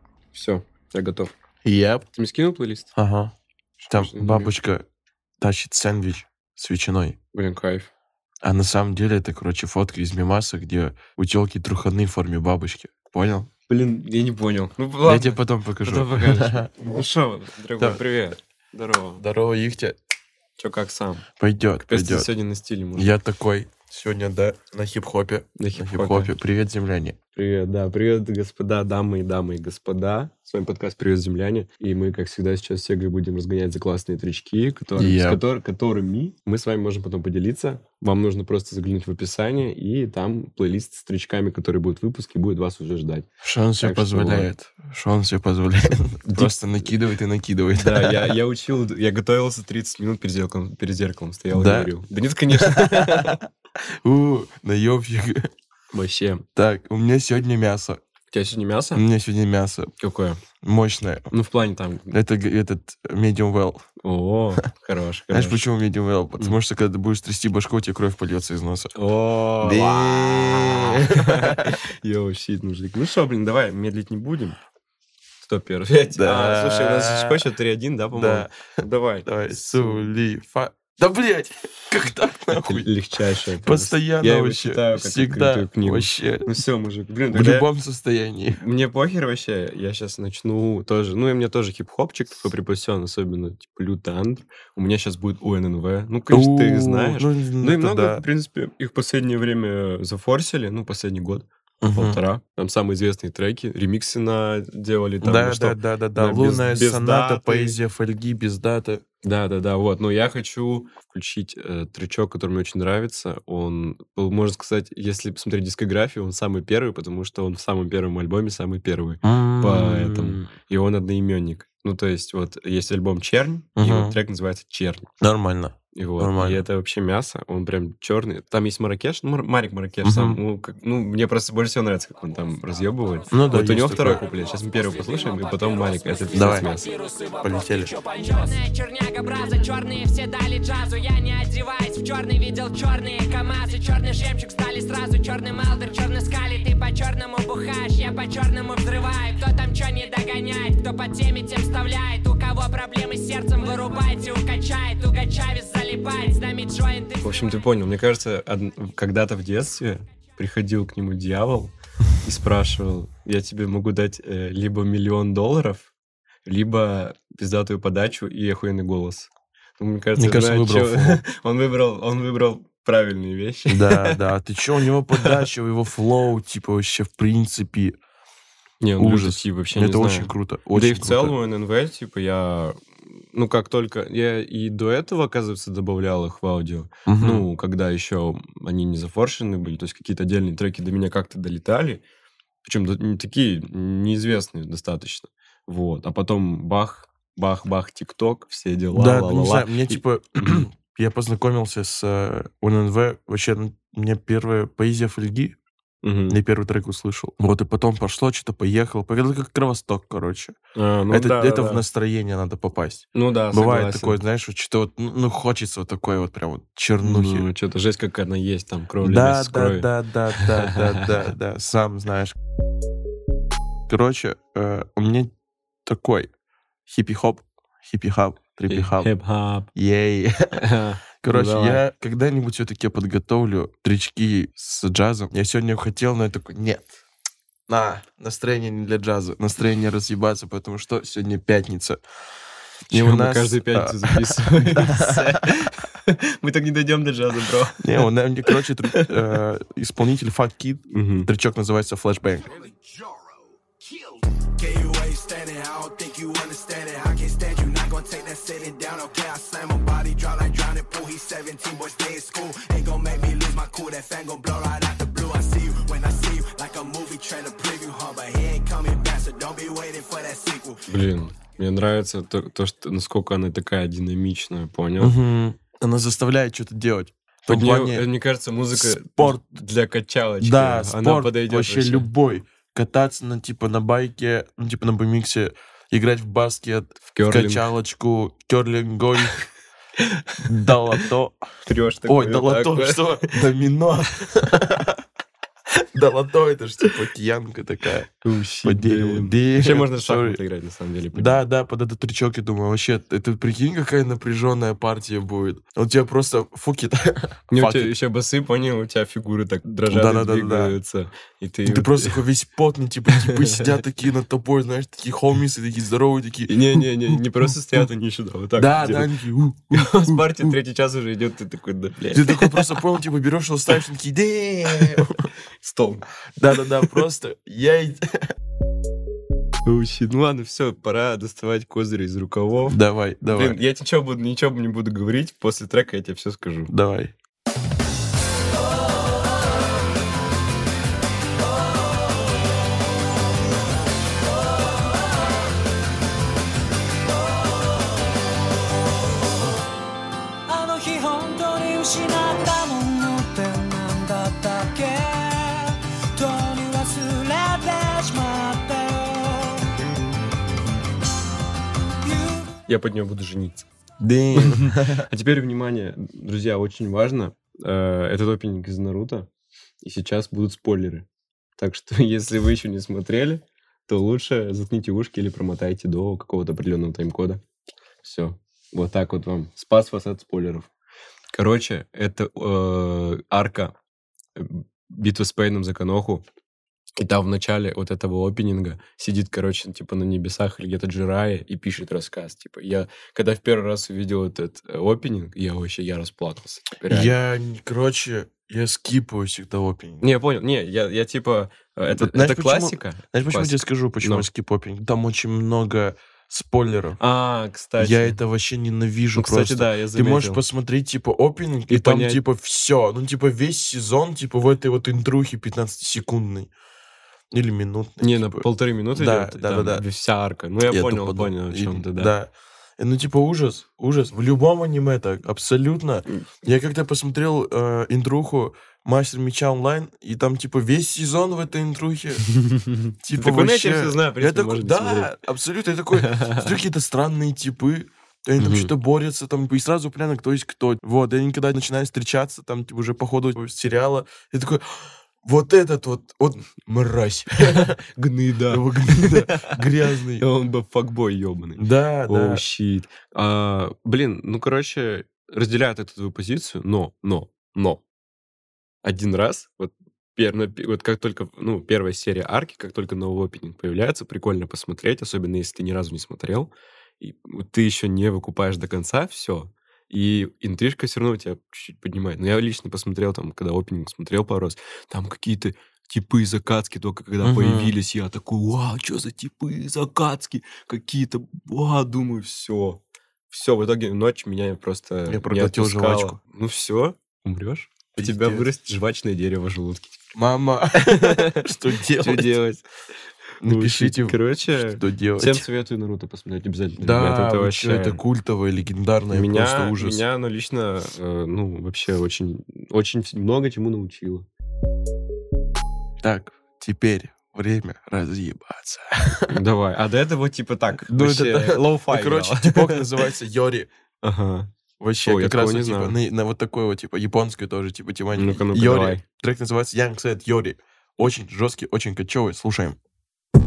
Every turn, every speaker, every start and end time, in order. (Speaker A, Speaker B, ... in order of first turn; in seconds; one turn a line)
Speaker A: 0.3-1.3
Speaker B: 1.6-2.1
Speaker A: 2.1-2.9
Speaker B: 3.0-3.3
Speaker A: 3.8-4.5
Speaker B: 3.9-4.8
Speaker B: 5.4-7.2
Speaker A: 7.3-7.9
Speaker B: 8.4-13.5
Speaker A: 13.7-19.2
Speaker B: 15.0-16.7
Speaker B: 19.2-20.0
Speaker A: 20.6-21.3
Speaker B: 21.4-22.3
Speaker A: 21.8-23.1
Speaker B: 23.0-27.2
Speaker A: 25.6-26.3
Speaker A: 27.3-43.3
Speaker B: 35.0-35.4
Speaker B: 43.4-48.4
Speaker A: 43.8-44.5
Speaker A: 46.3-46.7
Speaker A: 47.7-53.4
Speaker B: 51.5-51.9
Speaker B: 52.5-55.5
Speaker A: 55.9-56.5
Speaker B: 56.6-58.0
Speaker A: 58.3-59.0
Speaker B: 59.0-59.9
Speaker A: 60.0-60.4
Speaker B: 60.6-61.3
Speaker A: 61.3-62.1
Speaker B: 62.1-63.8
Speaker A: 64.0-65.6
Speaker B: 65.3-68.9
Speaker A: 69.0-74.6
Speaker B: 69.6-71.8
Speaker A: 75.4-80.1
Speaker B: 76.2-77.5
Speaker B: 78.1-78.7
Speaker B: 79.2-82.9
Speaker A: 82.5-87.7
Speaker B: 83.6-86.5
Speaker B: 87.3-88.6
Speaker A: 88.6-107.8
Speaker B: 96.3-98.2
Speaker B: 101.8-102.2
Speaker B: 105.2-109.0
Speaker A: 109.2-125.1
Speaker B: 119.2-120.4
Speaker B: 123.8-124.2
Speaker B: 125.2-126.6
Speaker A: 125.9-136.9
Speaker B: 130.0-130.4
Speaker B: 133.3-134.2
Speaker B: 136.3-136.7
Speaker B: 137.4-138.0
Speaker C: 138.1-157.2
Speaker A: 157.2-165.9
Speaker A: 166.4-174.2
Speaker B: 170.2-171.2
Speaker B: 173.7-178.0
Speaker A: 178.8-192.0
Speaker B: 179.0-181.4
Speaker B: 187.1-187.5
Speaker A: 192.6-200.7
Speaker B: 198.9-205.6
Speaker A: 206.0-206.4
Speaker B: 206.3-210.6
Speaker A: 210.8-211.8
Speaker B: 211.1-217.5
Speaker A: 213.1-214.2
Speaker A: 217.0-221.1
Speaker B: 219.0-222.3
Speaker B: 223.9-225.3
Speaker B: 225.9-226.3
Speaker B: 226.9-229.2
Speaker A: 228.7-229.7
Speaker B: 229.7-230.4
Speaker A: 230.6-231.8
Speaker B: 231.2-236.9
Speaker B: 237.7-242.0
Speaker A: 242.9-249.1
Speaker B: 242.9-245.4
Speaker B: 247.8-252.6
Speaker A: 250.9-251.3
Speaker D: 252.6-253.1
Speaker D: 253.8-270.8
Speaker A: 270.9-275.1
Speaker B: 275.0-278.1
Speaker A: 277.5-282.1
Speaker B: 278.7-279.6
Speaker B: 280.4-289.4
Speaker A: 287.1-287.7
Speaker B: 290.4-291.4
Speaker A: 291.7-293.4
Speaker B: 292.1-295.0
Speaker B: 295.9-298.1
Speaker A: 298.2-301.4
Speaker B: 298.6-300.4
Speaker B: 301.1-307.9
Speaker A: 307.5-312.2
Speaker B: 309.9-310.8
Speaker B: 311.7-317.5
Speaker A: 313.1-313.6
Speaker A: 316.5-319.1
Speaker B: 318.6-320.6
Speaker A: 319.7-322.8
Speaker B: 322.1-325.3
Speaker A: 325.6-326.1
Speaker B: 326.4-328.0
Speaker A: 329.6-332.8
Speaker B: 332.6-333.6
Speaker A: 333.4-336.7
Speaker B: 336.7-337.1
Speaker E: 350.5-359.7
Speaker E: 362.1-362.4
Speaker A: 362.6-363.7
Speaker B: 364.0-365.1
Speaker A: 364.3-369.3
Speaker A: 369.8-377.4
Speaker A: 378.0-380.7
Speaker A: 381.3-383.7
Speaker A: 384.4-386.2
Speaker A: 387.0-397.1
Speaker B: 396.9-400.1
Speaker A: 400.0-404.3
Speaker B: 401.9-407.0
Speaker A: 407.0-408.2
Speaker B: 407.8-416.5
Speaker A: 409.1-410.4
Speaker A: 411.7-412.2
Speaker B: 417.3-419.8
Speaker A: 418.0-422.1
Speaker B: 420.7-432.3
Speaker A: 432.3-435.1
Speaker B: 433.0-447.8
Speaker A: 435.9-436.5
Speaker A: 438.4-438.7
Speaker A: 447.5-457.8
Speaker B: 448.5-450.2
Speaker B: 451.6-452.4
Speaker A: 458.8-490.1
Speaker B: 477.2-477.8
Speaker B: 485.1-486.2
Speaker B: 488.0-488.5
Speaker B: 490.1-492.4
Speaker A: 490.9-491.4
Speaker A: 492.0-492.7
Speaker B: 493.4-495.5
Speaker A: 493.4-498.0
Speaker B: 496.8-500.0
Speaker A: 499.1-504.3
Speaker B: 506.0-509.4
Speaker A: 509.3-512.9
Speaker B: 510.7-513.7
Speaker A: 514.0-514.5
Speaker B: 514.8-522.8
Speaker A: 515.0-516.0
Speaker A: 518.2-519.0